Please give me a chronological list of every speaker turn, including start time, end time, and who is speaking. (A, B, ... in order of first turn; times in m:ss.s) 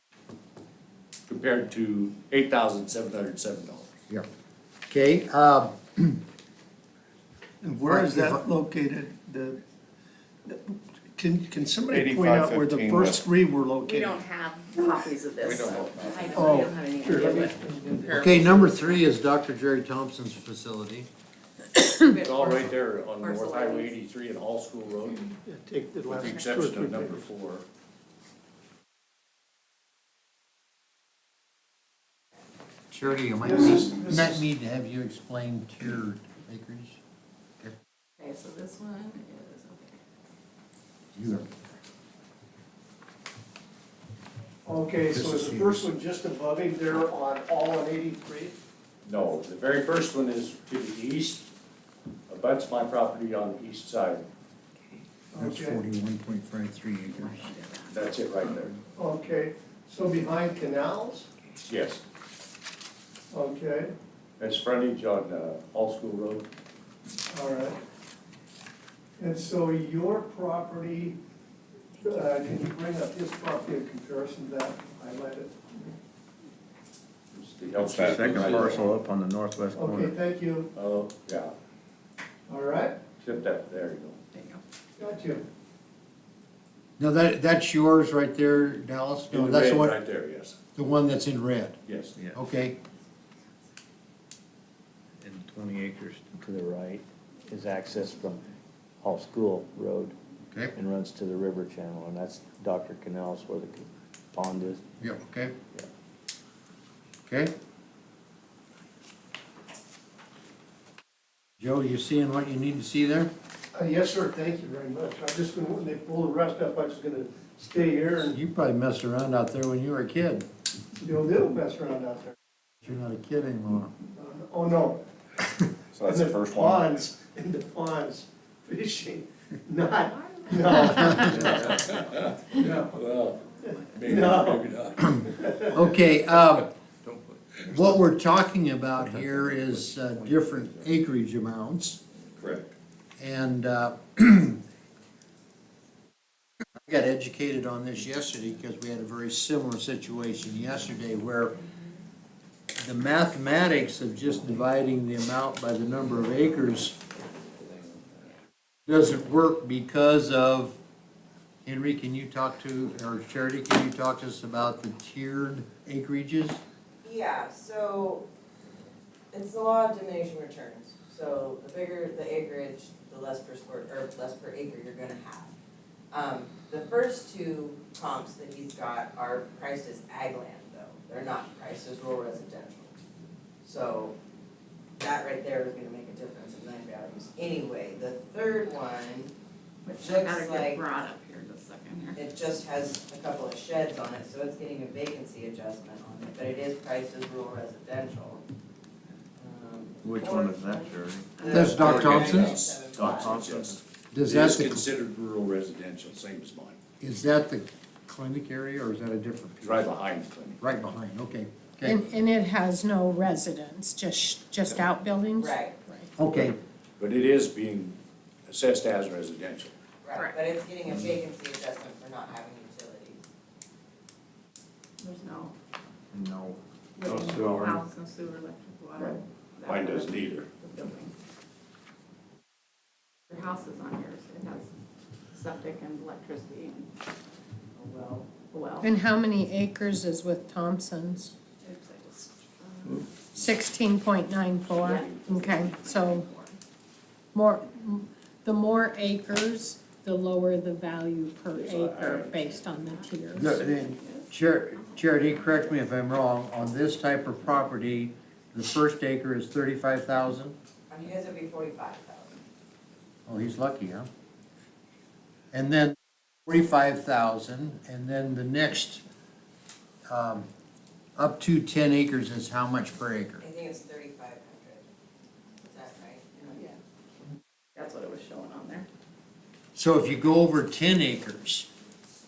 0:01.3-0:03.9 A
0:04.9-0:06.2 B
0:07.6-0:09.6 C
0:07.9-0:08.4 B
0:10.4-0:14.2 C
0:11.9-0:13.3 D
0:13.9-0:19.0 E
0:15.4-0:15.7 F
0:15.7-0:16.3 A
0:16.1-0:17.3 G
0:16.3-0:17.7 C
0:18.1-0:21.1 B
0:22.0-0:22.6 G
0:22.1-0:25.3 A
0:23.2-0:23.9 G
0:25.4-0:27.2 C
0:26.1-0:27.6 A
0:32.9-0:37.0 B
0:33.4-0:34.4 C
0:38.2-0:40.0 E
0:41.1-0:41.5 B
0:44.6-0:48.6 C
0:45.1-0:45.9 B
0:49.0-0:51.5 A
0:52.3-0:54.3 A
0:55.3-0:55.8 C
0:55.4-0:57.6 B
0:57.1-0:58.0 E
0:57.9-0:58.8 A
0:58.9-1:01.3 C
1:01.6-1:02.0 A
1:03.3-1:03.9 C
1:04.4-1:06.5 A
1:07.3-1:07.8 C
1:09.2-1:11.2 C
1:12.0-1:15.9 C
1:17.3-1:18.9 A
1:17.8-1:19.8 F
1:17.9-1:20.1 H
1:19.7-1:20.7 C
1:20.7-1:21.5 A
1:22.5-1:23.0 C
1:23.2-1:24.2 A
1:24.3-1:24.6 E
1:25.0-1:25.5 C
1:27.0-1:30.0 B
1:29.3-1:30.6 A
1:30.7-1:31.8 B
1:31.8-1:32.1 A
1:32.3-1:32.8 B
1:35.2-1:38.4 H
1:35.4-1:36.0 F
1:39.0-1:40.2 H
1:40.7-1:44.9 H
1:45.0-1:45.5 B
1:47.3-1:47.5 B
1:51.6-1:53.3 B
1:53.7-1:58.4 C
1:58.3-2:00.4 B
2:01.0-2:02.3 C
2:02.8-2:03.9 B
2:04.1-2:05.0 C
2:05.9-2:07.0 D
2:06.0-2:11.7 C
2:11.3-2:15.6 A
2:12.6-2:13.0 C
2:13.6-2:14.6 C
2:15.3-2:15.7 C
2:15.7-2:16.7 B
2:17.6-2:22.0 B
2:22.4-2:22.7 A
2:23.2-2:24.6 B
2:26.8-2:31.6 B
2:32.8-2:36.9 B
2:38.9-2:40.8 B
2:41.6-2:46.6 B
2:47.0-2:48.2 G
2:49.3-2:55.5 G
2:56.1-3:02.9 G
3:03.6-3:04.2 G
3:05.0-3:09.3 G
3:09.8-3:12.2 E
3:10.0-3:10.8 G
3:12.2-3:18.4 G
3:19.4-3:23.5 G
3:20.0-3:21.2 H
3:20.2-3:21.2 F
3:21.4-3:21.8 E
3:21.5-3:22.6 B
3:22.0-3:26.8 A
3:22.9-3:23.7 F
3:24.1-3:24.8 B
3:27.0-3:29.9 B
3:29.6-3:30.6 A
3:30.6-3:32.0 B
3:31.8-3:36.1 I
3:35.4-3:35.8 G
3:36.2-3:36.6 B
3:37.0-3:39.7 A
3:40.0-3:43.2 G
3:45.0-3:45.5 E
3:46.1-3:46.6 F
3:47.0-3:51.1 E
3:47.1-3:47.8 F
3:49.6-3:50.5 A
3:53.3-3:54.7 E
3:55.3-3:56.9 E
3:57.8-3:58.3 G
3:58.5-3:58.9 E
3:58.8-4:01.3 I
4:01.6-4:03.1 E
4:03.3-4:06.3 I
4:04.8-4:06.6 E
4:04.9-4:05.3 A
4:07.3-4:13.6 I
4:11.5-4:12.5 A
4:12.8-4:15.7 E
4:13.3-4:20.6 B
4:20.9-4:22.4 G
4:23.3-4:24.1 B
4:25.5-4:25.9 B
4:26.4-4:29.0 B
4:30.1-4:30.5 B
4:31.2-4:33.4 B
4:33.4-4:34.9 G
4:35.6-4:36.6 G
4:37.7-4:38.9 E
4:39.7-4:41.7 B